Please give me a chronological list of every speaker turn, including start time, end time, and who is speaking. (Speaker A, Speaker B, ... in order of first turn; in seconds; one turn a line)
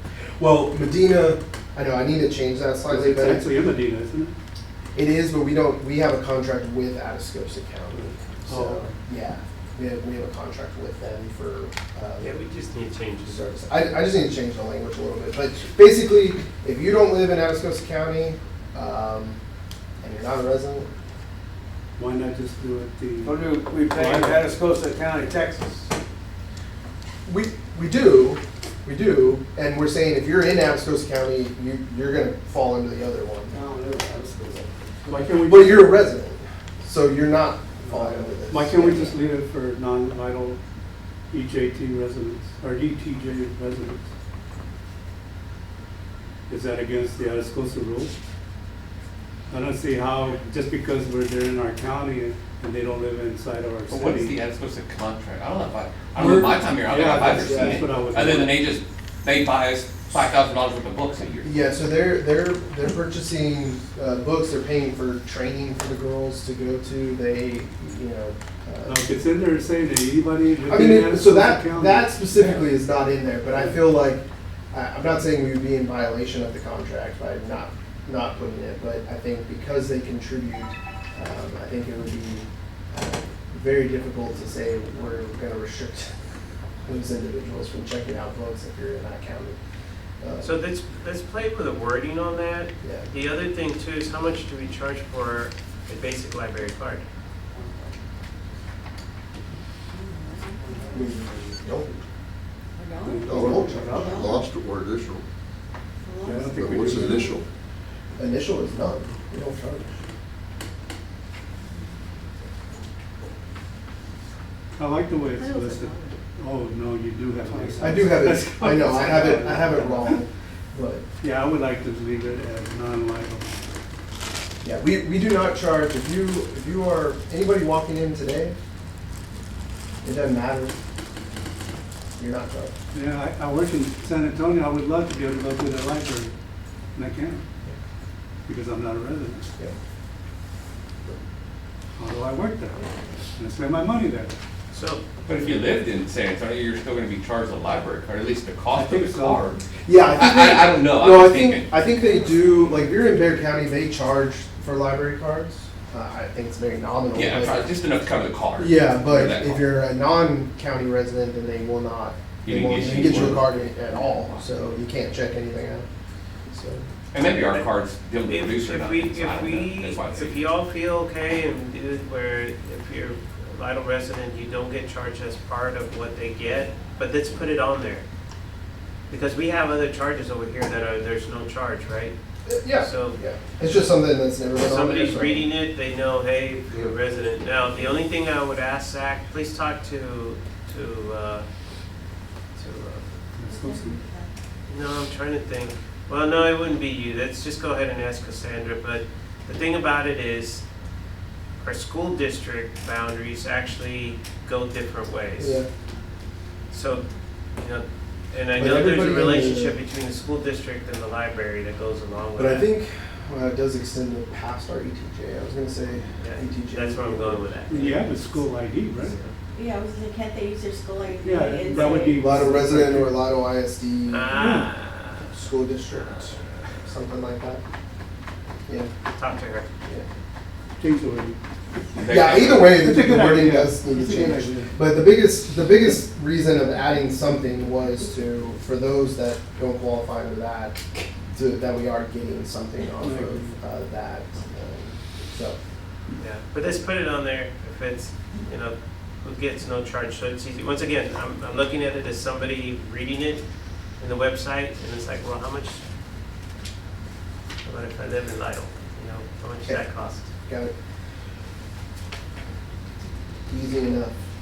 Speaker A: 0.4-3.5
Speaker B: 2.9-4.3
Speaker A: 5.0-12.4
Speaker B: 8.5-9.0
Speaker C: 12.2-13.4
Speaker A: 13.3-19.4
Speaker A: 20.0-20.9
Speaker B: 22.0-24.4
Speaker D: 23.2-25.9
Speaker A: 27.3-33.5
Speaker D: 33.5-35.4
Speaker B: 35.1-36.0
Speaker A: 35.4-39.2
Speaker B: 37.9-40.6
Speaker B: 41.3-44.1
Speaker B: 46.5-48.1
Speaker B: 49.5-54.4
Speaker E: 53.9-61.5
Speaker B: 56.2-58.6
Speaker A: 57.4-57.8
Speaker A: 61.4-69.0
Speaker B: 68.8-72.2
Speaker A: 70.7-86.1
Speaker A: 86.8-89.6
Speaker A: 90.2-90.5
Speaker C: 90.4-97.0
Speaker A: 92.8-93.1
Speaker F: 99.9-101.1
Speaker A: 100.9-101.9
Speaker F: 102.8-103.2
Speaker B: 103.0-104.1
Speaker G: 103.2-105.2
Speaker A: 103.3-104.3
Speaker F: 104.0-104.5
Speaker F: 106.0-106.5
Speaker B: 106.2-107.3
Speaker G: 106.5-107.5
Speaker A: 108.2-109.9
Speaker B: 114.8-120.2
Speaker F: 115.3-116.2
Speaker A: 117.8-121.0
Speaker B: 121.2-123.5
Speaker A: 124.6-128.6
Speaker A: 130.0-130.8
Speaker A: 132.2-132.7
Speaker B: 132.9-136.3
Speaker B: 136.9-137.4
Speaker B: 138.5-139.5
Speaker B: 142.0-144.3
Speaker C: 144.7-145.0
Speaker E: 145.3-151.7
Speaker B: 148.7-149.5
Speaker A: 149.9-157.7
Speaker E: 157.1-159.7
Speaker A: 158.6-165.9
Speaker E: 162.4-163.5
Speaker A: 166.5-166.9
Speaker E: 167.1-170.5
Speaker C: 167.4-167.7
Speaker C: 168.3-178.0
Speaker C: 179.1-182.2
Speaker A: 182.5-185.5
Speaker C: 182.7-183.2
Speaker C: 184.6-191.5
Speaker C: 192.6-193.1
Speaker B: 193.4-194.0
Speaker F: 193.5-194.3
Speaker C: 194.7-200.6
Speaker C: 201.6-205.6
Speaker A: 205.4-205.7
Speaker C: 206.7-212.7
Speaker A: 208.6-209.8
Speaker A: 212.4-218.0
Speaker C: 216.2-219.4
Speaker B: 217.7-219.2
Speaker F: 219.5-222.4
Speaker B: 221.2-223.2
Speaker A: 221.7-224.4
Speaker C: 224.1-225.3
Speaker B: 224.3-224.7
Speaker A: 225.3-227.6
Speaker C: 225.9-226.6
Speaker C: 229.1-229.7
Speaker B: 230.8-231.4
Speaker E: 231.9-232.8
Speaker A: 232.1-245.6
Speaker B: 232.7-234.8
Speaker B: 243.0-243.6
Speaker C: 246.2-253.4
Speaker C: 254.0-255.8
Speaker C: 257.6-260.3
Speaker A: 259.7-260.7
Speaker A: 263.5-264.1